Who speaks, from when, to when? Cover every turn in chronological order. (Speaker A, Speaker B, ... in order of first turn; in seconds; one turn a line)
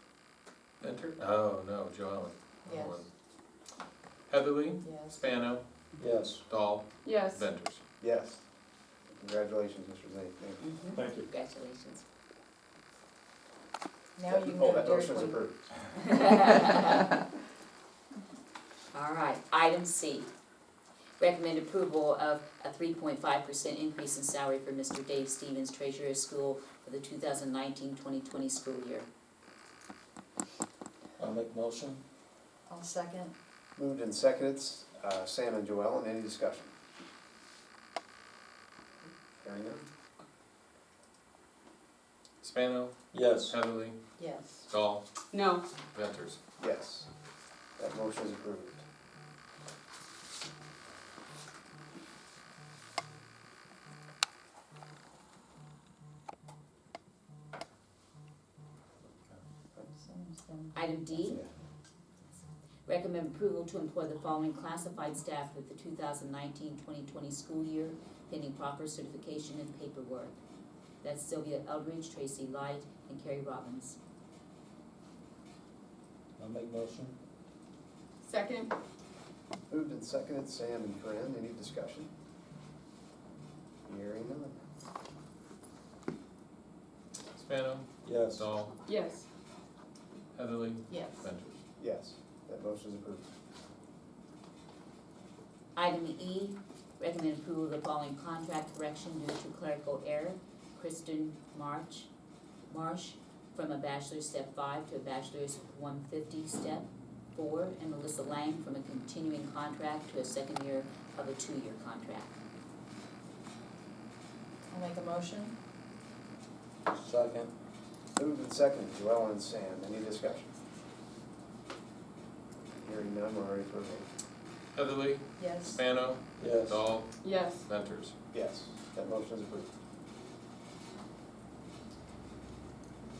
Speaker A: 0.8-3.1
Speaker B: 2.7-3.0
Speaker A: 4.3-5.7
Speaker B: 4.8-5.2
Speaker C: 6.0-6.4
Speaker A: 6.5-7.8
Speaker D: 7.0-7.5
Speaker E: 8.0-8.4
Speaker E: 9.1-10.6
Speaker F: 10.6-12.0
Speaker B: 14.2-15.4
Speaker E: 14.3-15.7
Speaker F: 16.0-17.1
Speaker F: 18.9-20.3
Speaker F: 21.2-29.1
Speaker C: 31.2-32.0
Speaker B: 32.7-33.3
Speaker E: 33.8-36.7
Speaker E: 39.0-39.9
Speaker A: 42.4-44.0
Speaker C: 43.1-43.6
Speaker B: 44.2-44.6
Speaker A: 44.7-45.1
Speaker D: 45.3-45.7
Speaker A: 45.9-46.4
Speaker E: 46.6-47.1
Speaker E: 47.8-48.8
Speaker B: 60.0-60.7
Speaker F: 60.7-61.4
Speaker E: 61.2-61.5
Speaker F: 62.9-70.4
Speaker F: 71.0-74.0
Speaker C: 76.4-77.2
Speaker D: 78.2-78.7
Speaker E: 79.7-82.1
Speaker E: 83.9-84.6
Speaker A: 87.3-88.8
Speaker C: 88.0-88.5
Speaker D: 88.8-89.2
Speaker A: 90.3-91.6
Speaker B: 90.9-91.2
Speaker E: 91.8-93.2
Speaker F: 95.8-102.1
Speaker F: 102.7-112.4
Speaker B: 114.7-115.6
Speaker C: 116.9-117.5
Speaker E: 118.2-120.5
Speaker E: 122.8-124.1
Speaker A: 124.7-128.2
Speaker B: 125.4-125.8
Speaker C: 126.4-126.8
Speaker D: 127.2-127.7
Speaker E: 128.3-129.7